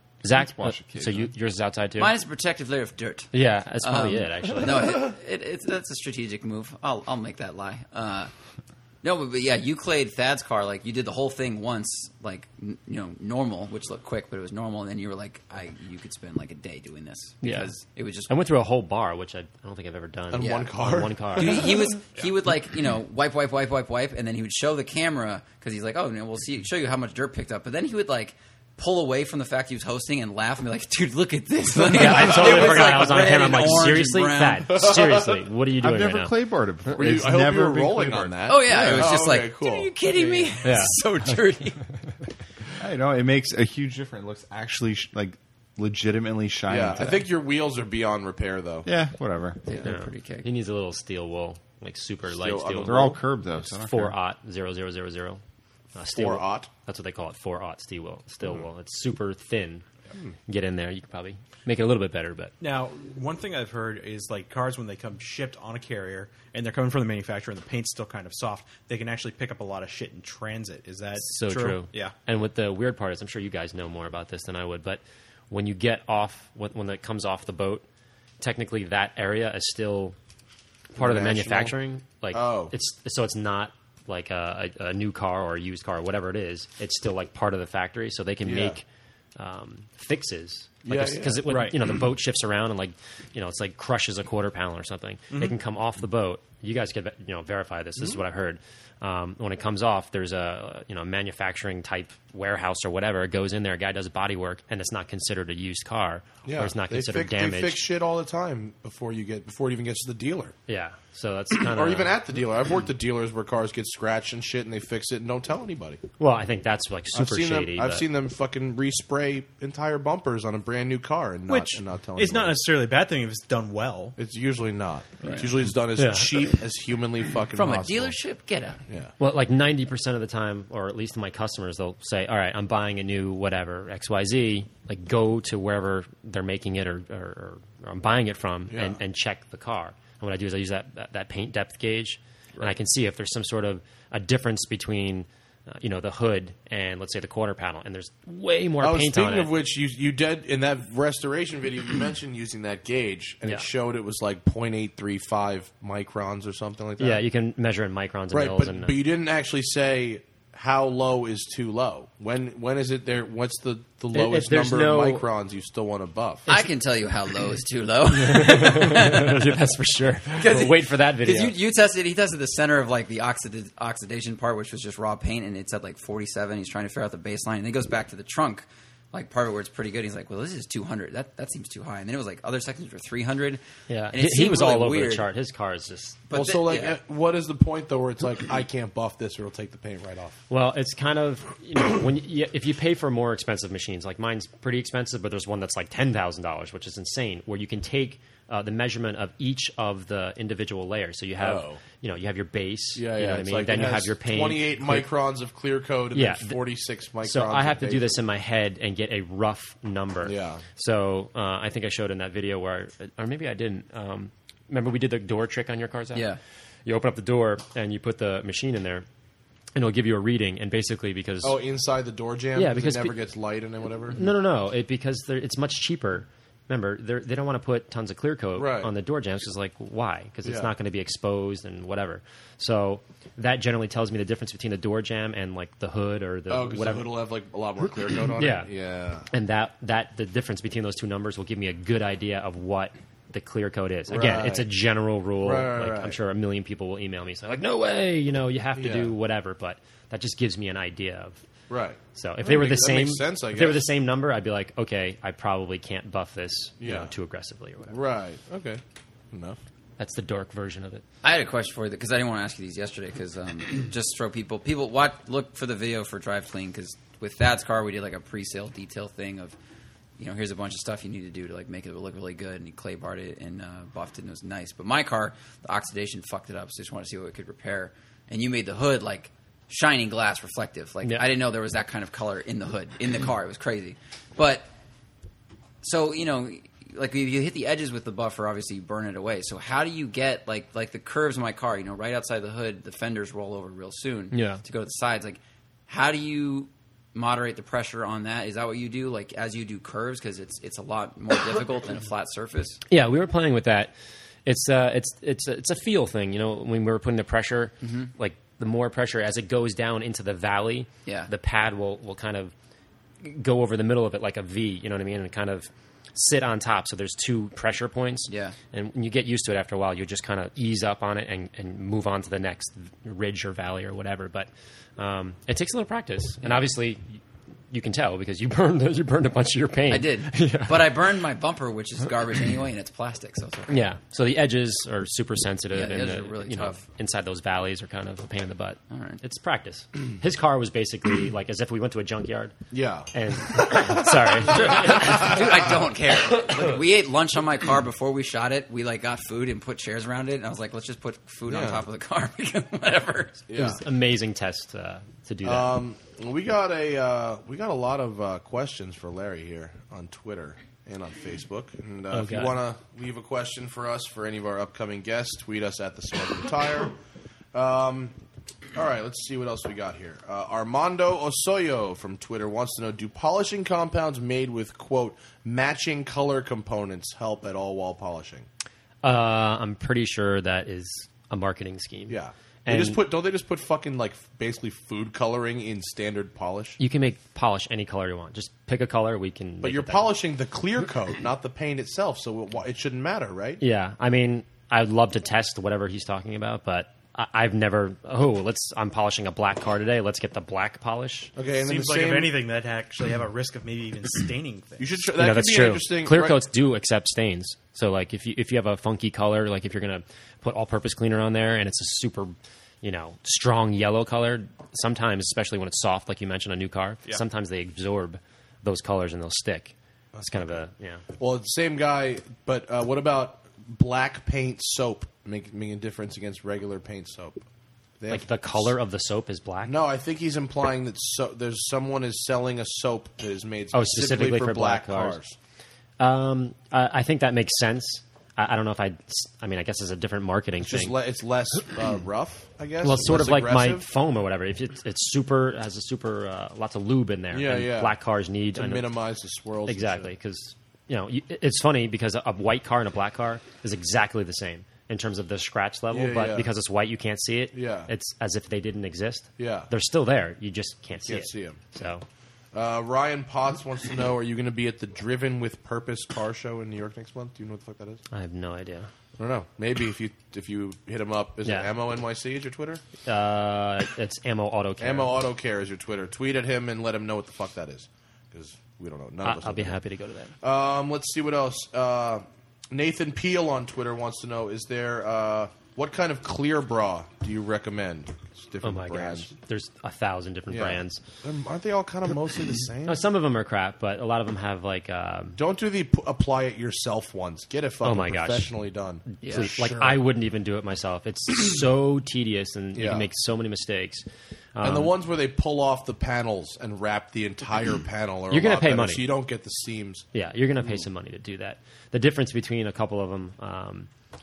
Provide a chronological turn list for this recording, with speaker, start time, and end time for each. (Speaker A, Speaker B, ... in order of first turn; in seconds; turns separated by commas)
Speaker A: 0.2-2.1, Speaker B: 0.3-1.3, Speaker C: 2.0-8.3, Speaker A: 3.3-5.0, Speaker C: 9.0-18.3, Speaker A: 17.4-17.7, Speaker A: 18.3-21.6, Speaker D: 20.3-21.7, Speaker C: 20.4-20.7, Speaker C: 21.3-34.9, Speaker A: 31.8-36.3, Speaker D: 32.3-32.9, Speaker D: 34.7-35.4, Speaker B: 35.8-39.1, Speaker D: 36.9-40.6, Speaker C: 38.5-41.8, Speaker A: 40.6-40.9, Speaker B: 42.8-47.3, Speaker D: 46.7-48.9, Speaker B: 48.9-49.6, Speaker C: 49.6-50.5, Speaker A: 49.8-55.4, Speaker D: 52.3-53.2, Speaker B: 52.8-54.2, Speaker A: 56.0-59.8, Speaker D: 56.1-56.7, Speaker A: 60.5-62.5, Speaker E: 62.6-72.2, Speaker A: 71.2-77.8, Speaker A: 78.4-80.2, Speaker A: 80.9-88.8, Speaker D: 81.0-81.8, Speaker D: 82.3-82.7, Speaker D: 88.4-88.8, Speaker A: 89.4-107.8, Speaker D: 90.8-91.5, Speaker E: 91.5-91.8, Speaker D: 106.5-110.5, Speaker A: 110.7-112.2, Speaker D: 111.7-116.0, Speaker A: 116.2-118.0, Speaker D: 117.1-122.6, Speaker E: 121.5-124.2, Speaker D: 124.2-128.2, Speaker C: 125.2-125.5, Speaker A: 126.0-126.4, Speaker C: 127.5-128.8, Speaker D: 128.9-129.1, Speaker A: 129.2-149.5, Speaker D: 138.7-139.0, Speaker D: 148.8-157.2, Speaker A: 157.0-158.9, Speaker D: 158.3-166.5, Speaker A: 164.1-165.3, Speaker C: 166.5-169.5, Speaker A: 168.3-171.6, Speaker C: 170.4-185.3, Speaker A: 183.9-186.2, Speaker C: 186.3-187.0, Speaker D: 186.3-190.4, Speaker A: 190.5-205.1, Speaker D: 201.4-201.8, Speaker D: 203.0-208.2, Speaker A: 206.1-206.6, Speaker A: 207.2-216.3, Speaker D: 210.2-210.6, Speaker C: 216.1-216.4, Speaker A: 216.8-219.1, Speaker A: 219.8-221.6, Speaker D: 221.4-224.2, Speaker A: 222.6-223.2, Speaker A: 224.1-237.1, Speaker D: 228.6-228.9, Speaker D: 230.4-230.7, Speaker D: 236.5-239.3, Speaker A: 238.4-238.7, Speaker A: 239.3-251.4, Speaker D: 244.1-244.7, Speaker D: 245.4-246.2, Speaker D: 248.8-249.1, Speaker D: 251.7-253.9, Speaker A: 252.2-258.0, Speaker D: 256.8-257.1, Speaker D: 257.9-258.8, Speaker D: 259.3-259.6, Speaker A: 260.0-261.0, Speaker C: 261.2-269.6, Speaker C: 270.2-284.7, Speaker C: 285.8-302.8, Speaker A: 294.3-294.6, Speaker A: 302.9-303.9, Speaker A: 304.5-312.5, Speaker C: 307.8-308.1, Speaker C: 311.1-311.3, Speaker A: 313.2-330.9, Speaker C: 318.3-318.6, Speaker C: 329.9-333.9, Speaker A: 333.7-342.6, Speaker C: 335.7-336.8, Speaker C: 338.9-339.2, Speaker D: 342.7-343.1, Speaker A: 343.1-345.4, Speaker D: 344.5-345.6, Speaker C: 344.5-353.4, Speaker D: 351.5-351.8, Speaker D: 353.5-353.8, Speaker A: 353.5-355.7, Speaker D: 355.4-367.0, Speaker A: 362.1-362.6, Speaker D: 367.5-368.1, Speaker D: 368.8-378.5, Speaker A: 379.0-383.0, Speaker D: 382.1-386.8, Speaker A: 386.8-390.1, Speaker D: 389.6-393.6, Speaker A: 393.6-401.3, Speaker D: 401.4-402.4, Speaker E: 401.6-405.0, Speaker D: 404.8-406.4, Speaker A: 405.2-419.7, Speaker D: 420.1-420.6, Speaker A: 420.2-421.0, Speaker D: 421.2-427.4, Speaker D: 428.0-428.7, Speaker A: 428.1-429.8, Speaker D: 429.7-435.4, Speaker A: 433.7-435.2, Speaker A: 436.0-441.0, Speaker D: 440.6-443.9, Speaker A: 442.8-448.9, Speaker D: 447.3-448.0, Speaker D: 448.5-450.1, Speaker A: 449.7-462.1, Speaker D: 455.9-456.5, Speaker D: 457.5-457.9, Speaker D: 459.4-459.7, Speaker D: 461.1-461.6, Speaker D: 462.5-468.0, Speaker A: 468.1-468.9, Speaker D: 469.2-472.8, Speaker A: 473.1-475.1, Speaker D: 474.8-479.8, Speaker A: 479.2-480.3, Speaker D: 480.4-489.3, Speaker A: 488.6-491.0, Speaker D: 490.5-493.1, Speaker A: 492.9-495.4, Speaker D: 495.4-500.0, Speaker A: 497.8-498.5, Speaker A: 499.1-504.9, Speaker C: 499.2-499.5, Speaker D: 502.8-503.1, Speaker D: 504.6-510.1, Speaker A: 508.3-509.1, Speaker A: 510.1-513.9